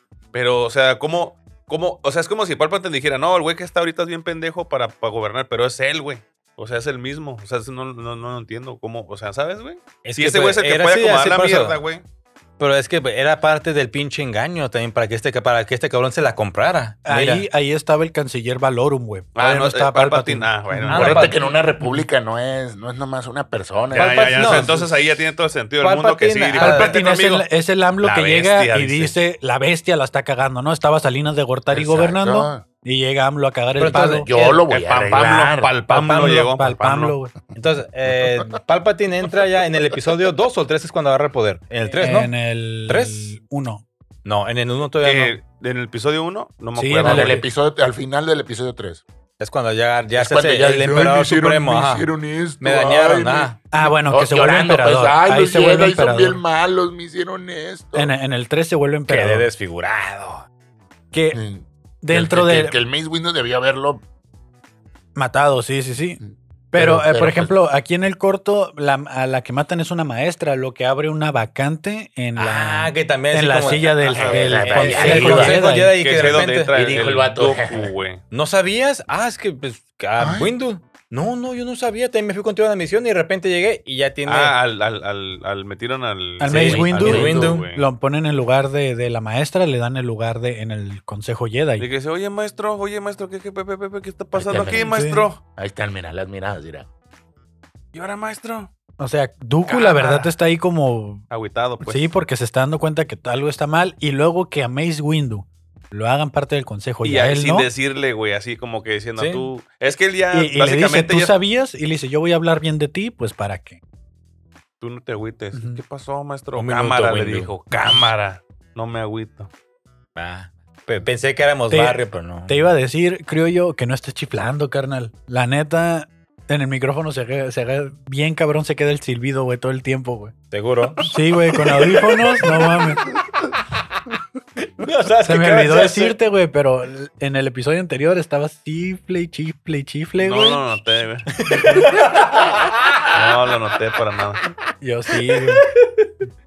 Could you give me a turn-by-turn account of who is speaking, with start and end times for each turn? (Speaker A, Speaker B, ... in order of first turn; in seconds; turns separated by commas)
Speaker A: 0.3-12.0, Speaker B: 10.0-11.8, Speaker B: 12.6-17.5, Speaker C: 17.1-21.0, Speaker A: 19.4-21.4, Speaker B: 20.9-21.4, Speaker D: 20.9-24.8, Speaker C: 21.8-22.1, Speaker B: 23.9-24.9, Speaker A: 23.9-27.5, Speaker B: 25.8-27.0, Speaker C: 26.6-34.3, Speaker A: 28.0-29.2, Speaker D: 31.7-32.6, Speaker B: 33.8-34.6, Speaker D: 34.2-35.7, Speaker A: 34.7-37.2, Speaker C: 35.9-37.3, Speaker B: 37.5-42.3, Speaker D: 38.1-38.5, Speaker C: 42.0-43.9, Speaker B: 42.9-43.3, Speaker B: 44.2-45.4, Speaker A: 45.0-47.4, Speaker C: 46.8-47.5, Speaker D: 47.0-49.0, Speaker B: 49.4-52.1, Speaker D: 50.2-58.1, Speaker B: 52.6-53.6, Speaker C: 53.7-56.4, Speaker C: 57.9-59.5, Speaker B: 59.1-60.5, Speaker C: 61.1-61.4, Speaker D: 61.3-64.0, Speaker C: 62.0-62.8, Speaker C: 65.2-66.2, Speaker D: 66.2-67.5, Speaker C: 66.7-76.4, Speaker B: 72.4-76.7, Speaker D: 74.1-75.6, Speaker A: 74.1-74.6, Speaker A: 75.9-78.2, Speaker D: 76.7-77.9, Speaker B: 78.3-84.5, Speaker D: 80.2-80.5, Speaker A: 84.3-87.9, Speaker C: 86.4-91.9, Speaker B: 86.5-87.7, Speaker D: 87.0-87.6, Speaker A: 91.8-95.4, Speaker D: 94.3-95.0, Speaker C: 94.9-95.3, Speaker D: 95.6-96.9, Speaker A: 97.9-98.7, Speaker C: 99.0-101.2, Speaker A: 99.7-100.3, Speaker A: 101.3-102.1, Speaker C: 101.8-107.7, Speaker A: 107.0-111.3, Speaker B: 109.2-109.5, Speaker C: 110.3-113.8, Speaker A: 114.8-119.5, Speaker C: 115.5-115.8, Speaker B: 116.6-117.5, Speaker B: 120.2-122.6, Speaker C: 121.7-130.3, Speaker B: 130.5-131.1, Speaker C: 131.1-133.0, Speaker B: 131.7-132.8, Speaker B: 134.8-136.2, Speaker C: 135.2-140.7, Speaker A: 140.2-141.3, Speaker B: 141.3-143.2, Speaker C: 141.5-141.9, Speaker A: 143.1-144.4, Speaker C: 144.8-145.7, Speaker B: 145.2-146.2